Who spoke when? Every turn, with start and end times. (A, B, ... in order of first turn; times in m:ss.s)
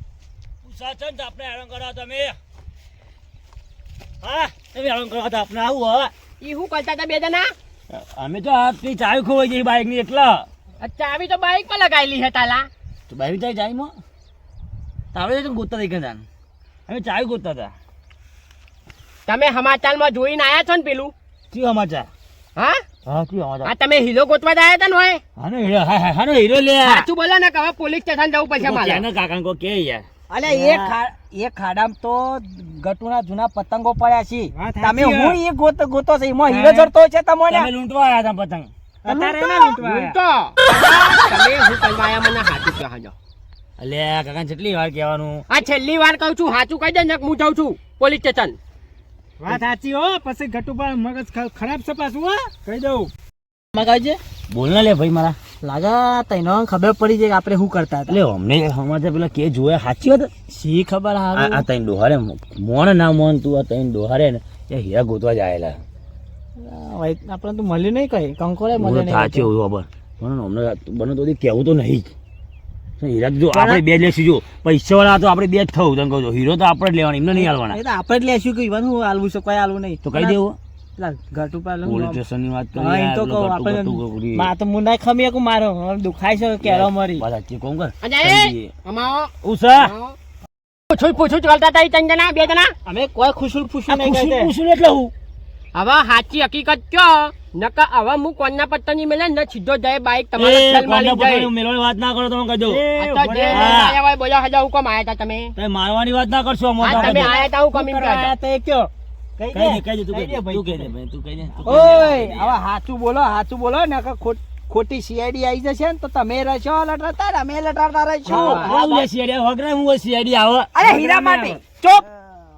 0:00.6-0:02.4 A
0:04.2-0:06.1 A
0:06.4-0:07.5 B
0:07.9-0:10.4 A
0:10.8-0:12.7 B
0:13.1-0:13.9 A
0:15.1-0:16.2 A
0:16.9-0:17.7 A
0:19.3-0:21.1 B
0:21.5-0:22.1 A
0:22.6-0:22.8 B
0:23.0-0:23.7 A
0:23.6-0:25.2 B
0:25.4-0:27.1 A
0:26.8-0:29.0 B
0:28.6-0:30.0 A
0:30.3-0:37.7 C
0:34.5-0:35.4 D
0:36.4-0:36.9 D
0:37.5-0:38.7 A
0:39.0-0:40.1 D
0:39.8-0:43.1 B
0:43.8-0:45.4 A
0:45.5-0:48.6 B
0:49.4-0:53.1 D
0:53.7-0:54.2 C
0:54.5-0:55.4 A
0:55.6-0:58.2 C
0:58.1-1:00.3 A
1:00.5-1:01.6 C
1:01.3-1:05.8 A
1:06.6-1:09.5 C
1:08.7-1:12.1 A
1:13.0-1:17.8 A
1:13.5-1:13.8 C
1:17.3-1:20.4 C
1:20.0-1:20.6 A
1:21.0-1:22.2 C
1:21.8-1:24.5 A
1:22.7-1:27.2 C
1:26.6-1:28.7 A
1:28.0-1:30.2 B
1:29.4-1:29.9 A
1:30.9-1:32.7 B
1:32.8-1:34.5 C
1:33.9-1:35.1 A
1:35.7-1:41.5 B
1:40.4-1:42.9 A
1:42.7-1:43.6 D
1:42.9-1:45.5 B
1:43.5-1:44.0 A
1:45.6-1:47.4 A
1:46.8-1:48.3 B
1:46.9-1:47.5 C
1:47.8-1:48.8 D
1:49.4-1:50.8 C
1:49.5-1:52.6 A
1:51.6-1:59.1 C
1:58.2-2:01.6 A
1:58.3-1:58.7 B
2:00.7-2:02.3 C